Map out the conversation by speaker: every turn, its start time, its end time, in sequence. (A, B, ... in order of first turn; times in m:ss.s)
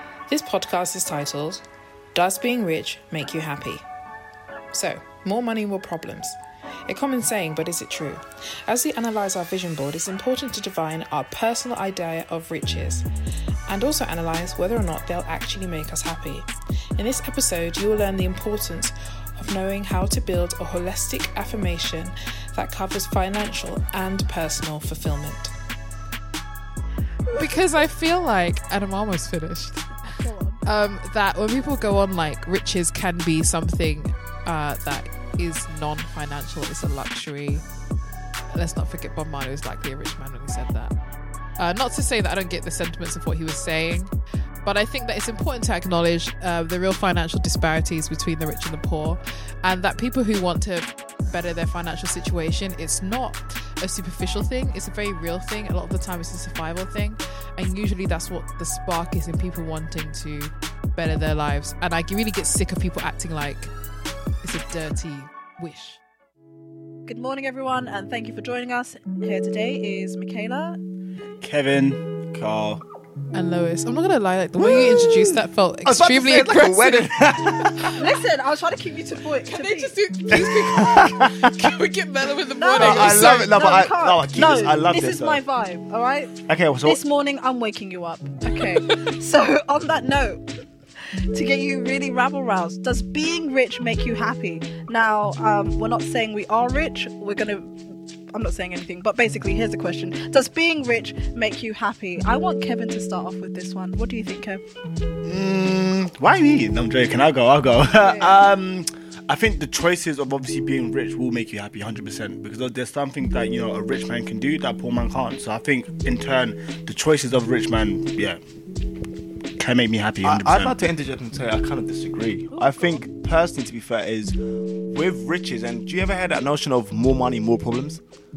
0:00.3-0:03.8 A
0:04.7-0:13.0 A
0:13.7-0:25.5 A
0:27.3-0:30.0 B
0:30.2-0:30.6 C
0:30.6-0:37.6 B
0:38.5-0:40.9 B
0:41.6-0:44.1 B
0:44.6-1:03.7 B
1:04.4-1:06.0 B
1:07.0-1:10.8 C
1:11.4-1:12.8 D
1:13.3-1:17.9 B
1:14.6-1:17.7 E
1:18.0-1:19.9 C
1:19.4-1:23.5 B
1:20.3-1:21.5 E
1:22.6-1:30.4 C
1:22.8-1:25.4 E
1:26.5-1:27.0 E
1:31.0-1:44.6 C
1:45.2-1:58.4 D
1:48.0-1:48.4 C
1:59.6-2:00.8 D
2:00.2-2:08.0 E
2:02.5-2:03.0 C